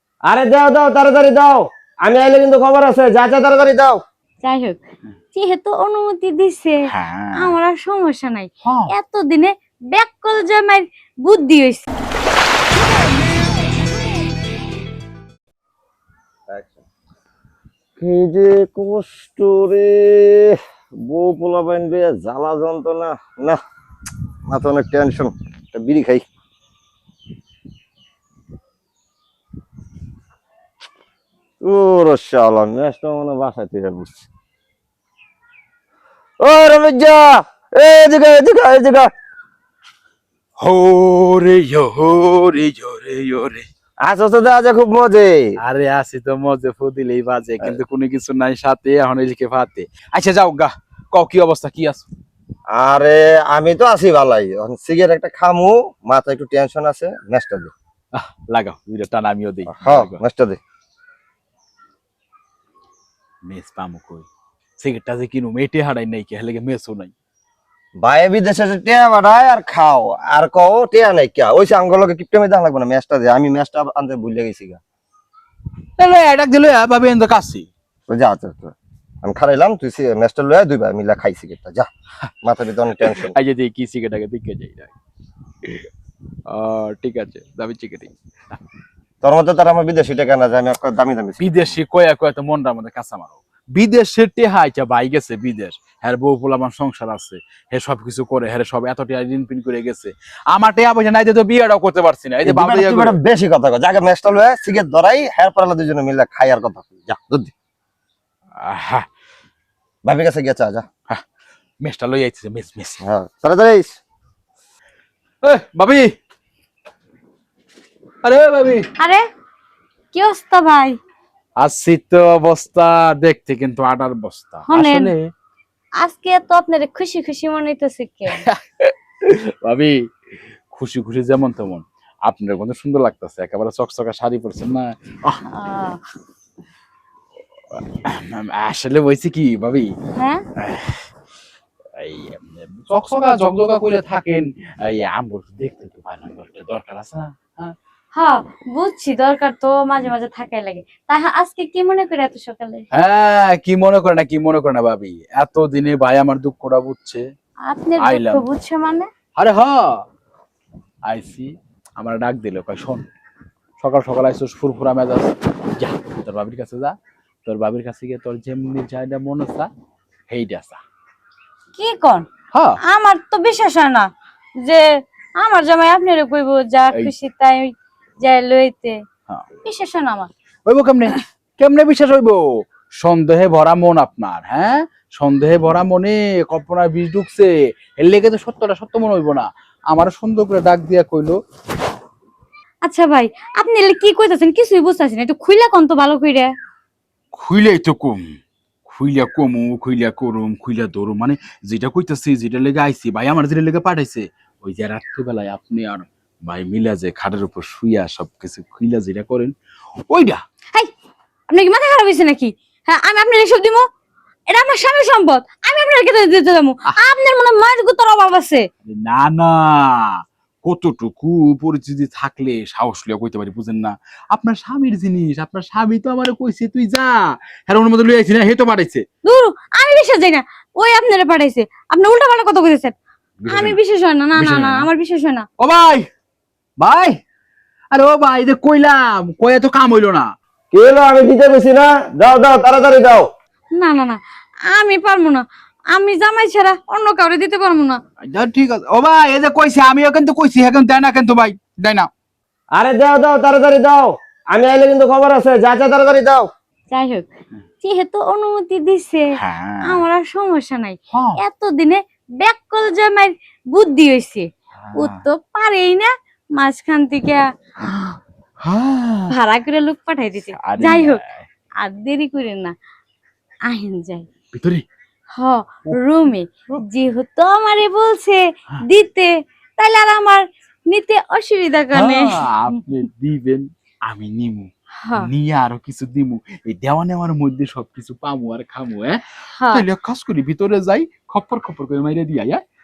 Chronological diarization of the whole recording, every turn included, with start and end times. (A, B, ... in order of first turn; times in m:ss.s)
0:00.3-0:04.0 A
0:04.4-0:04.8 B
0:05.3-0:06.8 B
0:06.9-0:07.6 C
0:07.4-0:11.9 B
0:08.6-0:08.9 C
0:16.5-0:16.8 A
0:18.0-0:23.6 A
0:24.5-0:26.2 A
0:31.6-0:34.3 A
0:36.4-0:39.1 A
0:40.6-0:43.6 C
0:44.0-0:45.5 A
0:45.6-0:52.1 C
0:52.7-0:57.7 A
0:58.2-1:00.2 C
0:59.7-1:00.6 A
1:03.4-1:04.3 C
1:04.8-1:07.1 C
1:08.0-1:14.8 A
1:16.0-1:17.7 C
1:18.1-1:21.9 A
1:22.4-1:23.3 A
1:23.0-1:24.9 C
1:26.5-1:28.1 C
1:29.2-1:31.7 A
1:31.4-1:43.2 C
1:42.4-1:47.5 A
1:48.6-1:49.1 C
1:50.0-1:50.8 A
1:51.8-1:53.0 C
1:53.0-1:54.0 A
1:55.4-1:56.1 C
1:58.2-1:58.9 C
1:59.0-1:59.2 B
2:00.1-2:01.0 B
2:01.6-2:05.3 C
2:04.7-2:05.1 B
2:06.0-2:08.4 B
2:08.4-2:10.0 C
2:10.7-2:15.4 C
2:15.5-2:16.0 B
2:17.7-2:20.0 C
2:20.2-2:20.4 B
2:20.6-2:21.0 C
2:22.0-2:27.8 C
2:28.2-2:32.8 B
2:32.9-2:37.2 C
2:37.7-2:39.1 B
2:38.0-2:38.5 C
2:39.4-2:40.0 C
2:41.1-2:43.0 C
2:43.8-2:47.0 C
2:47.5-2:49.7 C
2:50.3-2:50.8 C
2:51.7-2:52.3 B
2:52.5-2:52.8 C
2:52.8-2:54.1 B
2:55.4-2:59.0 B
2:59.6-3:00.3 B
3:00.7-3:11.4 C
3:12.8-3:16.5 B
3:17.3-3:29.6 C
3:30.1-3:30.4 C
3:31.5-3:33.9 B
3:34.5-3:38.7 B
3:38.8-3:49.1 C
3:49.2-3:53.0 B
3:53.4-3:53.8 C
3:53.5-3:55.5 B
3:54.4-3:54.9 C
3:55.6-3:56.1 C
3:56.8-3:57.2 C
3:57.9-4:00.3 C
4:00.7-4:03.3 A
4:03.8-4:08.0 B
4:08.2-4:12.1 C
4:12.8-4:16.5 A
4:16.9-4:17.3 B
4:17.8-4:19.3 B
4:19.4-4:20.0 C
4:19.8-4:27.5 B
4:21.1-4:21.4 C
4:24.8-4:25.2 C
4:27.8-4:29.3 C
4:29.3-4:31.2 B
4:30.6-4:31.5 C
4:31.8-4:32.7 B
4:33.7-4:34.3 B
4:34.5-4:34.8 C
4:35.4-4:42.5 B
4:35.9-4:36.8 C
4:41.9-4:52.6 C
4:45.0-4:45.3 B
4:49.5-4:49.9 B